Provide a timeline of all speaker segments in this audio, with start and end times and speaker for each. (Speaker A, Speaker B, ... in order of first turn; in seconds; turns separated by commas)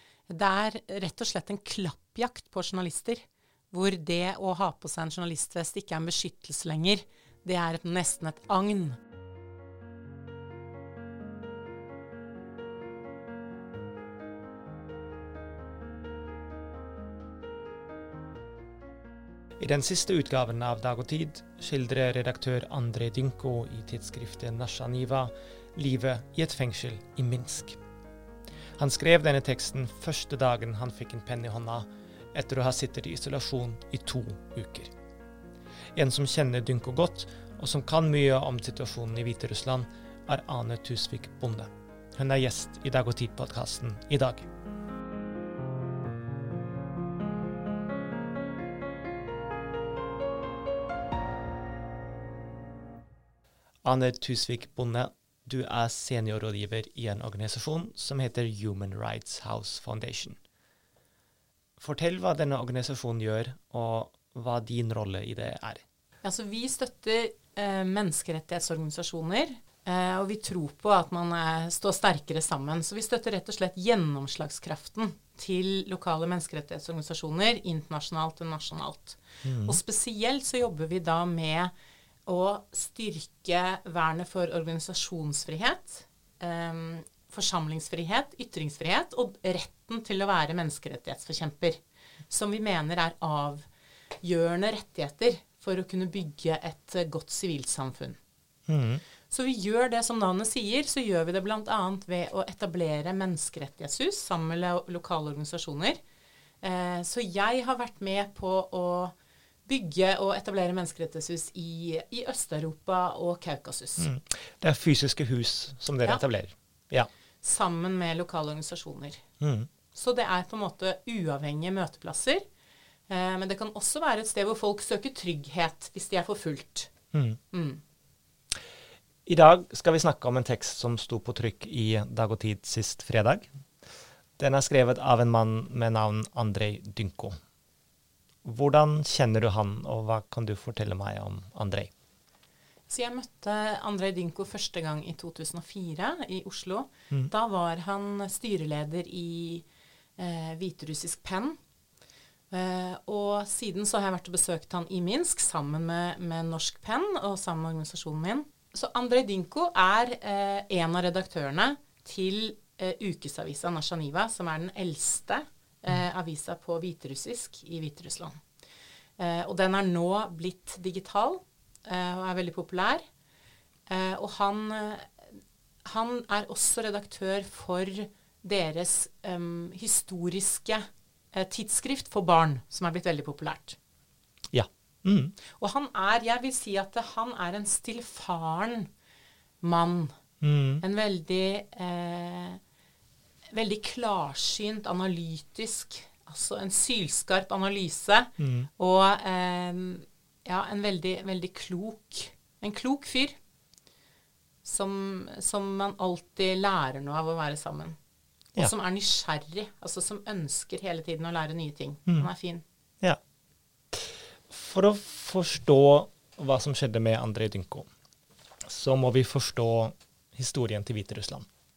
Speaker A: 0.3-9.0, Speaker B: 19.6-27.8, Speaker B: 28.8-34.9, Speaker B: 36.0-44.5, Speaker B: 53.8-60.4, Speaker B: 61.8-65.8, Speaker A: 66.2-81.7, Speaker B: 79.4-79.8, Speaker A: 82.3-93.7, Speaker A: 94.2-98.2, Speaker B: 98.7-99.0, Speaker A: 99.3-106.0, Speaker A: 106.6-109.2, Speaker A: 109.7-114.1, Speaker B: 114.0-117.1, Speaker A: 117.4-119.2, Speaker B: 119.4-119.7, Speaker A: 119.9-122.4, Speaker A: 123.1-126.9, Speaker B: 127.1-127.4, Speaker A: 127.5-127.8, Speaker B: 129.3-133.5, Speaker B: 134.4-137.4, Speaker B: 138.4-141.9, Speaker A: 142.9-149.7, Speaker A: 150.2-151.6, Speaker A: 152.5-168.4, Speaker A: 169.2-173.0, Speaker A: 173.9-183.8, Speaker B: 184.5-185.3, Speaker A: 185.6-188.9, Speaker A: 189.6-190.1, Speaker B: 190.4-190.8, Speaker A: 190.8-192.6, Speaker A: 193.5-203.4, Speaker B: 198.4-198.7, Speaker A: 204.6-208.0, Speaker A: 208.6-212.6, Speaker B: 213.9-217.9, Speaker B: 218.6-221.5